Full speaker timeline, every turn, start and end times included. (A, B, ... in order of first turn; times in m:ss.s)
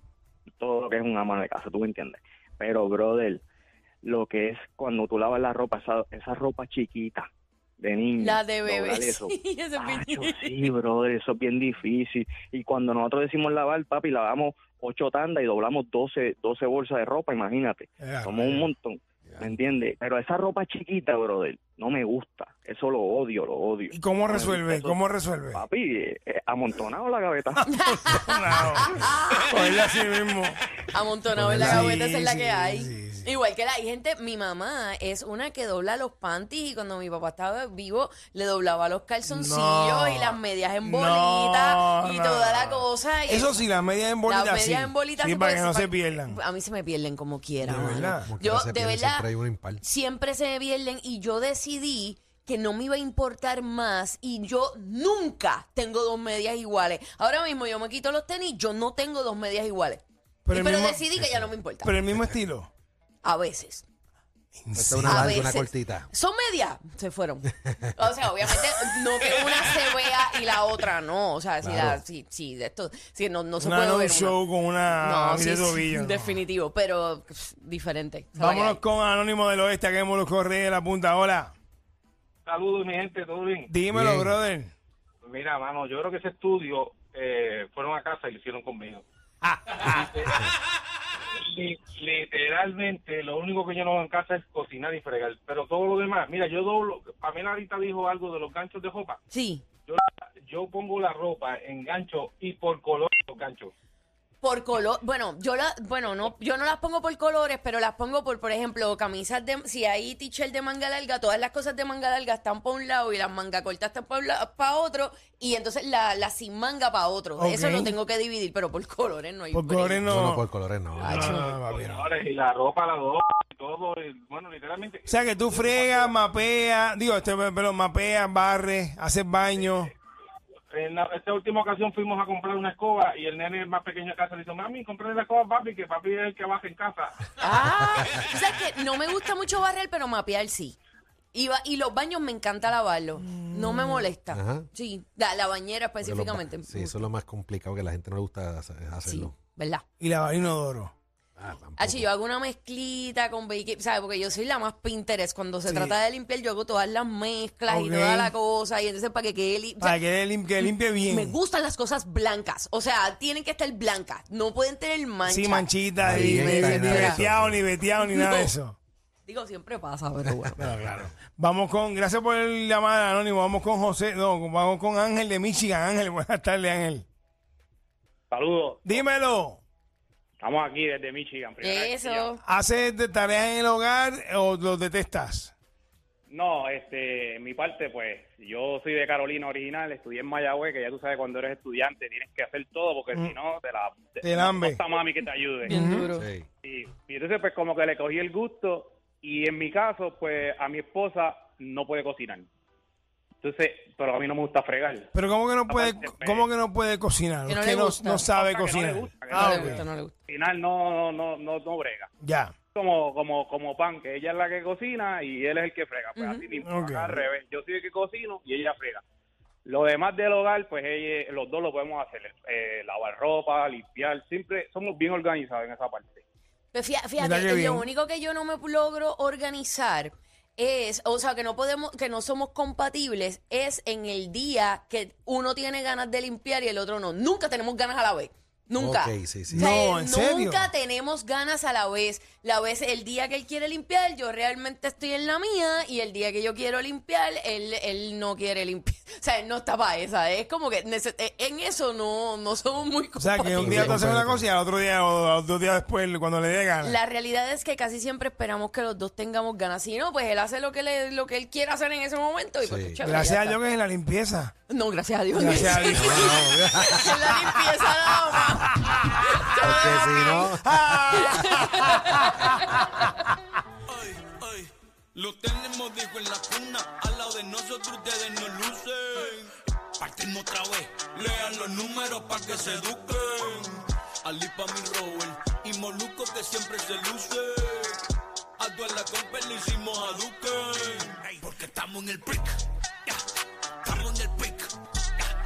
0:00.6-0:03.4 A
0:04.0-0:07.3 A
0:07.8-0:27.6 A
0:08.2-0:10.7 B
0:18.0-0:18.7 C
0:23.9-0:25.6 C
0:27.7-0:29.8 B
0:27.8-0:30.6 C
0:30.9-0:43.7 B
0:31.3-0:33.3 C
0:39.3-0:46.4 C
0:44.2-0:49.3 B
0:47.6-0:49.8 D
0:47.7-0:48.3 C
0:49.8-1:01.9 B
1:00.4-1:01.2 C
1:01.8-1:02.7 C
1:03.2-1:03.8 B
1:04.6-1:05.4 C
1:04.8-1:06.1 D
1:05.1-1:18.8 B
1:11.6-1:12.0 D
1:13.6-1:16.4 C
1:18.4-1:21.5 C
1:22.5-1:23.7 E
1:23.7-1:24.7 C
1:23.9-1:24.4 D
1:25.2-1:29.0 E
1:29.4-1:30.2 C
1:29.8-1:30.3 E
1:31.3-1:39.2 E
1:39.3-1:39.6 B
1:39.9-1:43.7 E
1:44.4-2:00.0 B
1:57.4-1:58.0 C
1:59.5-2:00.4 C
2:00.1-2:01.4 D
2:01.0-2:01.4 B
2:01.0-2:02.1 C
2:01.4-2:06.2 E
2:05.1-2:09.9 C
2:10.7-2:17.2 E
2:17.4-2:20.8 B
2:21.3-2:27.0 B
2:23.3-2:24.1 C
2:24.3-2:24.7 D
2:26.0-2:29.4 D
2:29.0-2:29.8 B
2:30.0-2:30.9 C
2:31.4-2:32.1 D
2:31.8-2:40.0 B
2:35.7-2:36.0 C
2:37.7-2:38.3 C
2:39.8-2:41.4 C
2:40.6-2:47.2 B
2:45.2-2:48.8 C
2:46.0-2:47.7 D
2:48.0-2:48.5 B
2:49.3-2:50.6 B
2:50.6-2:51.1 D
2:50.6-2:57.0 C
2:58.3-2:59.1 F
2:58.8-2:59.6 C
3:00.4-3:02.3 F
3:01.6-3:02.4 B
3:02.4-3:05.5 C
3:06.3-3:15.8 F
3:14.2-3:14.8 C
3:15.6-3:16.3 B
3:15.7-3:16.1 C
3:16.1-3:16.5 D
3:16.6-3:22.5 F
3:23.4-3:25.1 F
3:25.1-3:29.9 C
3:25.7-3:26.5 F
3:27.5-3:28.3 B
3:28.3-3:32.1 F
3:29.3-3:30.2 B
3:32.2-3:32.6 C
3:32.8-3:39.0 F
3:36.2-3:36.5 B
3:36.6-3:37.2 C
3:39.6-3:46.2 F
3:46.7-4:14.0 B
3:47.2-3:47.9 C
3:58.7-3:59.7 D
3:59.5-4:00.7 C
4:13.2-4:17.0 C
4:13.6-4:14.5 D
4:16.8-4:23.6 B
4:22.6-4:23.0 D
4:23.0-4:24.5 C
4:24.7-4:30.5 B
4:25.3-4:26.5 C
4:25.9-4:27.1 D
4:29.6-4:31.4 D
4:30.6-4:33.0 C
4:31.1-4:33.2 B
4:33.9-4:48.1 G
4:48.6-4:53.2 G
4:53.8-4:55.3 G